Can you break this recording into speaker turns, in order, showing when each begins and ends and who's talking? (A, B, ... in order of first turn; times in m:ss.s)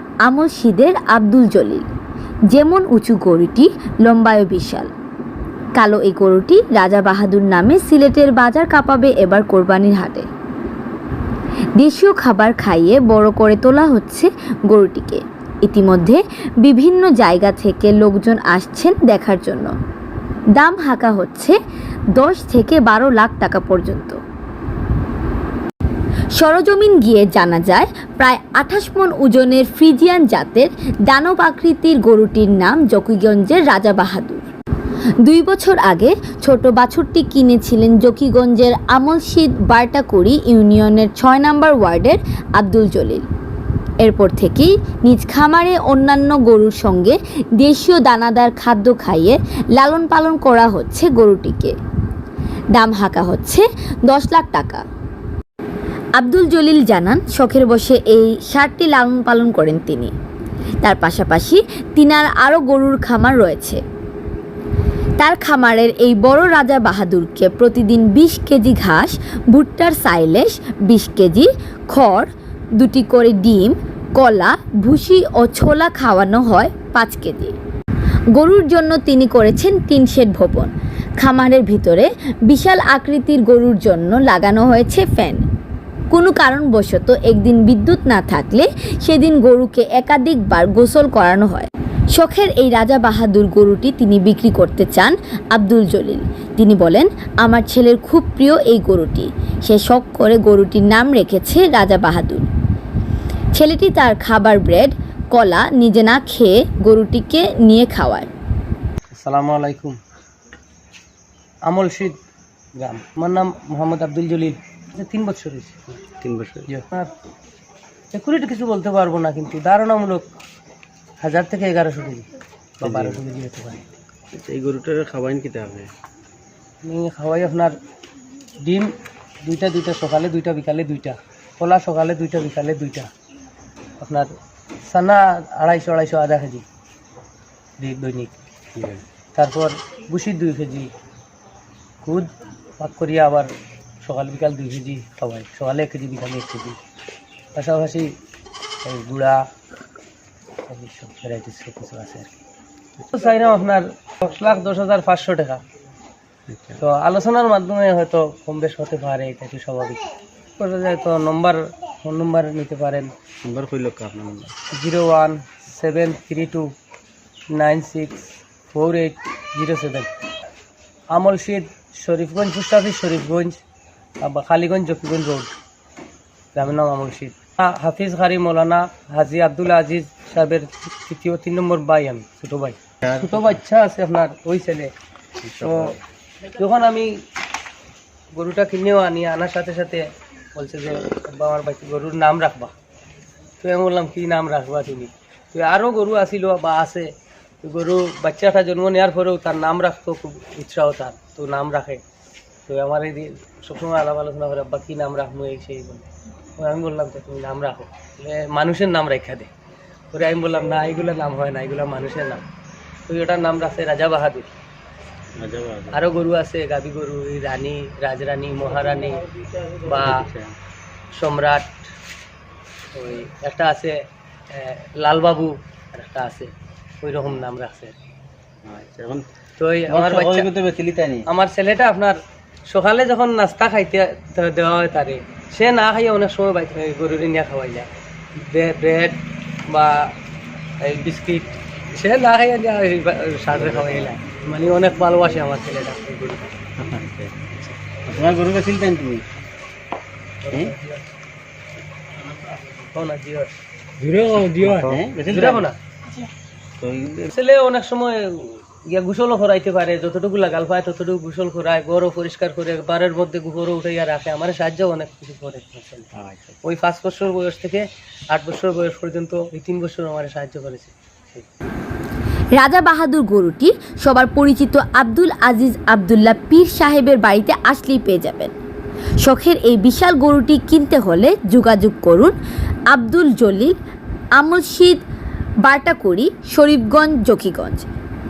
0:00.2-0:01.8 A
0:02.5-0:04.9 A
0:05.8-0:10.3 A
0:11.8-0:19.7 A
0:20.6-0:21.6 A
0:22.1-0:24.2 A
0:26.4-0:34.4 A
0:35.2-0:43.3 A
0:44.0-0:51.7 A
0:52.7-0:54.8 A
0:56.2-1:00.1 A
1:00.8-1:03.8 A
1:05.2-1:17.6 A
1:18.3-1:25.4 A
1:26.1-1:42.5 A
1:43.5-1:48.3 A
1:49.1-1:50.0 B
1:51.7-1:52.2 B
1:52.7-1:56.0 B
1:56.2-1:56.7 C
1:56.7-1:57.1 B
1:58.1-2:00.3 B
2:01.2-2:02.3 B
2:02.8-2:03.8 B
2:02.8-2:03.2 C
2:04.3-2:05.9 C
2:06.8-2:07.8 B
2:08.6-2:13.1 B
2:14.0-2:14.3 B
2:14.8-2:16.6 B
2:17.8-2:18.3 B
2:18.8-2:19.0 C
2:19.3-2:20.9 B
2:22.0-2:26.8 B
2:27.5-2:28.2 B
2:28.8-2:29.4 B
2:30.7-2:32.3 B
2:33.1-2:35.6 B
2:36.5-2:36.8 C
2:36.8-2:40.0 B
2:40.6-2:43.1 B
2:43.4-2:44.6 C
2:44.7-2:46.7 B
2:47.5-2:50.1 B
2:51.1-2:53.6 B
2:54.2-2:55.5 B
2:56.5-3:04.9 B
3:03.0-3:03.5 C
3:05.4-3:06.0 C
3:05.5-3:07.2 B
3:08.3-3:12.7 B
3:13.6-3:22.0 B
3:22.7-3:26.1 B
3:26.6-3:29.5 B
3:30.1-3:32.4 B
3:33.1-3:34.5 B
3:35.3-3:36.0 C
3:35.9-3:40.2 B
3:39.8-3:40.6 C
3:41.1-3:41.7 B
3:42.9-3:47.9 B
3:48.6-3:49.3 C
3:49.6-3:50.5 B
3:49.9-3:51.3 C
3:51.2-4:00.1 B
4:00.8-4:06.5 B
4:03.5-4:04.1 C
4:06.8-4:09.2 C
4:10.4-4:11.0 B
4:12.8-4:15.8 B
4:14.5-4:15.7 C
4:16.8-4:17.3 C
4:17.3-4:26.1 B
4:26.1-4:26.6 C
4:26.6-4:31.5 B
4:32.5-4:38.5 A
4:39.2-4:42.3 A
4:42.9-4:43.7 A
4:44.4-4:45.0 A
4:45.6-4:47.9 A